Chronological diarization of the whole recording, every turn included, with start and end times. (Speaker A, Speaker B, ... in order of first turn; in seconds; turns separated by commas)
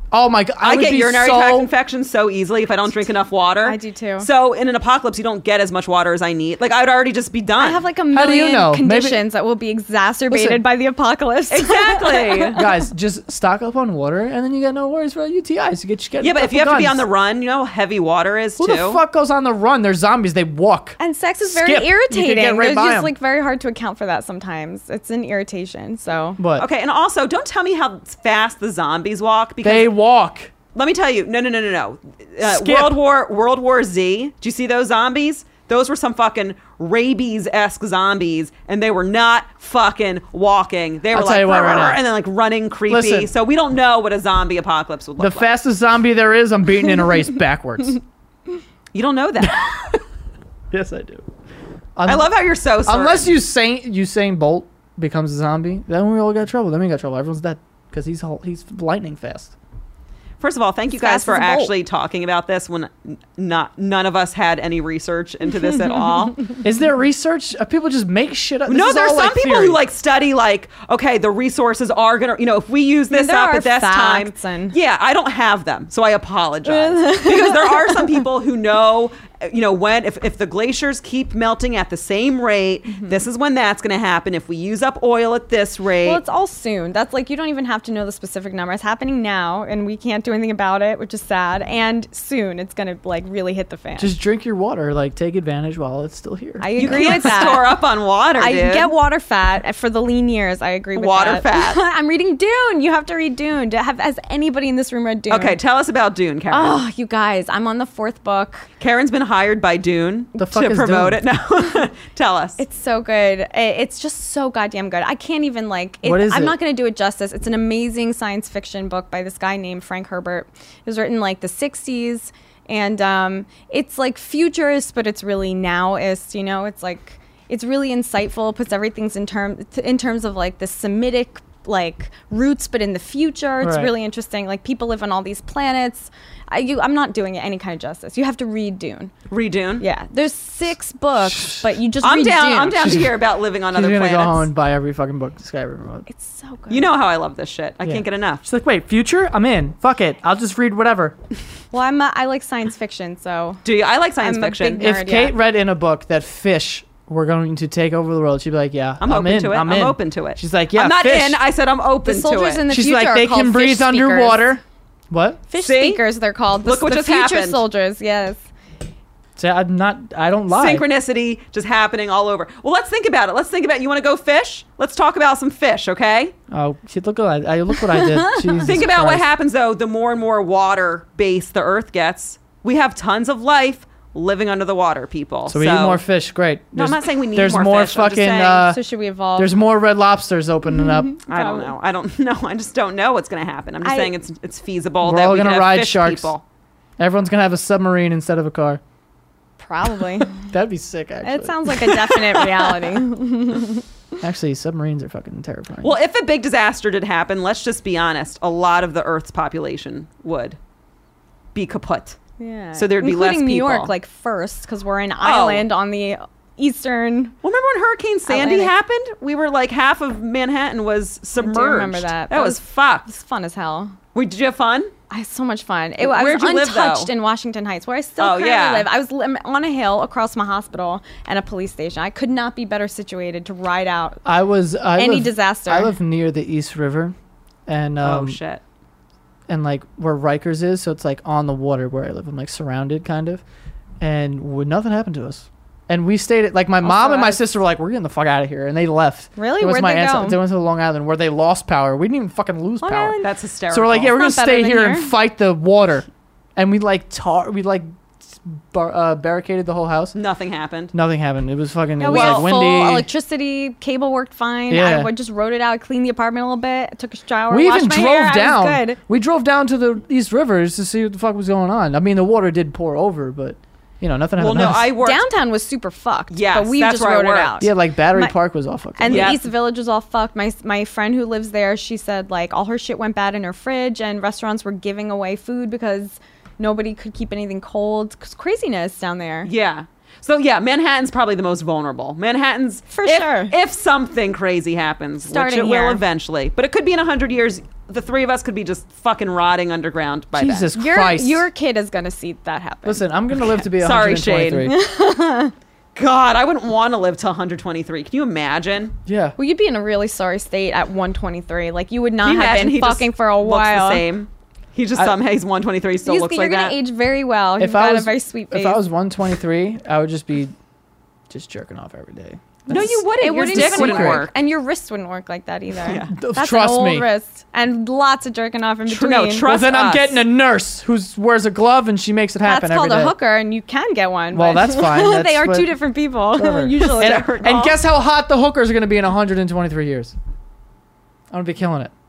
Speaker A: 0.1-1.7, Speaker B: 0.6-7.8, Speaker C: 3.6-4.3, Speaker C: 7.6-12.6, Speaker A: 8.1-9.2, Speaker A: 10.3-10.6, Speaker B: 11.5-12.6, Speaker A: 12.5-17.0, Speaker B: 16.2-19.0, Speaker A: 18.6-23.1, Speaker C: 21.0-26.4, Speaker A: 26.4-26.6, Speaker B: 26.6-29.9, Speaker A: 29.6-30.5, Speaker B: 30.7-45.5, Speaker A: 32.4-33.0, Speaker A: 41.1-42.0, Speaker A: 42.9-43.3, Speaker A: 45.2-48.0, Speaker B: 48.9-49.7, Speaker A: 49.4-50.0, Speaker A: 50.7-51.2, Speaker A: 52.0-52.3, Speaker B: 52.0-53.3, Speaker A: 52.8-59.5, Speaker B: 60.4-66.5, Speaker C: 60.9-61.7, Speaker A: 66.6-69.8, Speaker B: 68.7-86.2, Speaker C: 73.1-74.8, Speaker C: 76.6-78.0, Speaker C: 86.0-94.1, Speaker A: 94.0-97.5, Speaker C: 96.6-97.8, Speaker B: 96.8-98.9, Speaker C: 98.4-105.6, Speaker B: 100.9-101.8, Speaker B: 105.3-106.8, Speaker C: 106.5-108.7, Speaker B: 108.8-112.6, Speaker A: 110.4-111.2, Speaker C: 112.6-139.1, Speaker A: 116.0-116.5, Speaker A: 133.6-133.9, Speaker B: 139.3-139.8, Speaker C: 139.8-142.9, Speaker B: 142.0-144.5, Speaker A: 142.8-143.2, Speaker A: 143.7-146.1, Speaker C: 146.1-146.9, Speaker B: 146.7-148.4, Speaker A: 147.8-151.2, Speaker C: 151.7-153.6, Speaker B: 153.6-154.9, Speaker C: 154.2-155.3, Speaker A: 154.8-161.4, Speaker B: 159.0-162.6, Speaker C: 162.0-164.5, Speaker A: 162.7-165.4, Speaker C: 165.5-168.4, Speaker B: 165.6-166.0, Speaker B: 166.6-167.6, Speaker A: 169.3-170.8, Speaker B: 170.5-176.3, Speaker A: 176.5-179.3, Speaker C: 177.9-178.7, Speaker B: 178.6-186.0, Speaker A: 185.5-188.8, Speaker B: 186.7-188.7, Speaker C: 188.7-189.5, Speaker A: 189.3-191.2, Speaker C: 190.8-191.7, Speaker B: 191.3-196.4, Speaker C: 193.8-194.1, Speaker A: 195.0-196.3, Speaker A: 197.0-198.8, Speaker C: 199.6-200.4, Speaker A: 200.5-202.0, Speaker C: 201.2-203.8, Speaker A: 204.2-206.0, Speaker B: 205.8-210.6, Speaker B: 211.5-212.2, Speaker C: 212.4-217.3, Speaker B: 212.8-213.9, Speaker B: 215.2-215.7, Speaker B: 217.4-223.1, Speaker C: 218.3-218.7, Speaker C: 221.4-223.9, Speaker B: 224.1-224.9, Speaker C: 225.1-234.2, Speaker B: 226.0-227.1, Speaker B: 228.2-228.9, Speaker A: 234.2-237.1, Speaker C: 234.9-235.9, Speaker A: 237.7-238.4, Speaker B: 238.0-238.6, Speaker A: 239.5-243.4, Speaker A: 244.0-253.2, Speaker C: 246.8-247.4, Speaker C: 249.3-250.4, Speaker C: 252.8-253.3, Speaker B: 253.2-254.1, Speaker A: 253.7-260.1, Speaker C: 254.1-255.1, Speaker B: 260.1-260.9, Speaker A: 260.9-263.1, Speaker C: 262.0-269.0, Speaker B: 262.1-262.5, Speaker A: 264.7-265.1, Speaker A: 267.5-274.9, Speaker B: 274.4-275.2, Speaker C: 275.0-278.3, Speaker B: 276.3-277.6, Speaker A: 277.6-279.3, Speaker C: 279.0-289.5, Speaker B: 279.1-279.4, Speaker B: 289.4-300.7, Speaker C: 292.9-293.5, Speaker C: 295.2-296.0, Speaker A: 300.3-301.5, Speaker C: 300.7-303.1, Speaker A: 302.8-304.7, Speaker B: 303.6-304.7, Speaker C: 304.6-305.5, Speaker B: 305.9-308.9, Speaker A: 309.1-309.4, Speaker C: 309.4-314.0, Speaker B: 312.2-316.8, Speaker C: 316.0-318.8, Speaker A: 317.6-320.5, Speaker A: 321.3-324.3, Speaker B: 322.7-324.3, Speaker C: 323.2-329.5, Speaker B: 325.8-326.1, Speaker A: 326.1-327.1, Speaker B: 328.9-330.2, Speaker A: 329.4-333.1, Speaker C: 332.4-337.4, Speaker A: 334.3-335.7, Speaker A: 336.3-340.1, Speaker B: 336.8-337.8, Speaker A: 341.3-341.9